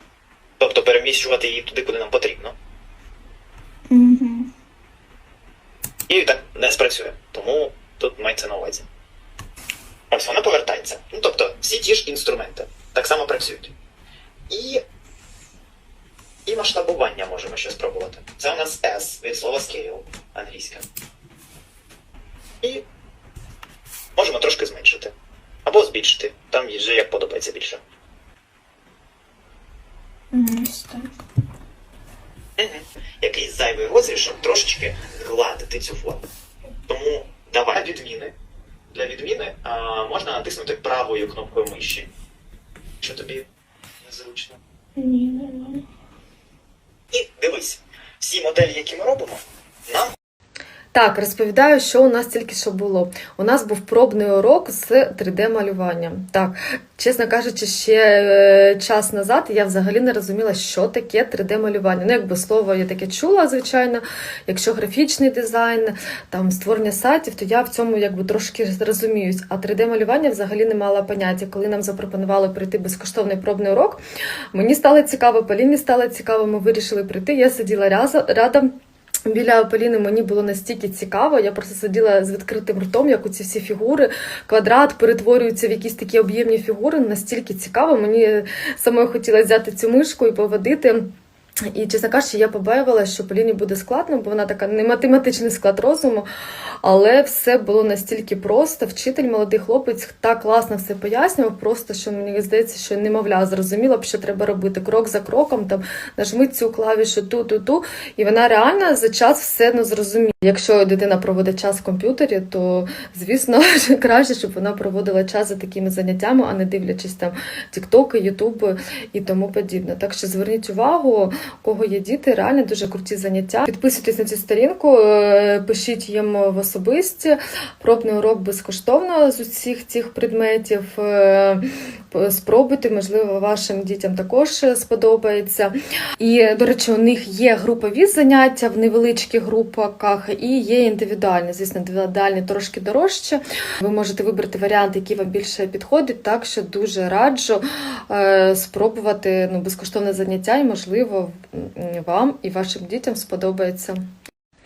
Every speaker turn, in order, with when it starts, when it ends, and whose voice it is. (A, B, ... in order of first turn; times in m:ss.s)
0:00.6-0:02.6 A
0:03.9-0:04.5 B
0:06.1-0:08.9 A
0:10.1-0:13.7 A
0:14.5-0:14.8 A
0:16.5-0:20.9 A
0:24.2-0:25.1 A
0:25.7-0:27.8 A
0:30.3-0:31.1 B
0:32.6-0:36.2 A
0:36.9-0:38.3 A
0:38.9-0:42.1 A
0:43.0-0:43.5 A
0:44.0-0:44.6 A
0:45.0-0:45.8 B
0:47.1-0:50.1 A
0:50.9-1:14.0 C
1:14.5-1:18.7 C
1:19.2-1:31.1 C
1:31.7-1:36.2 C
1:36.8-2:34.0 C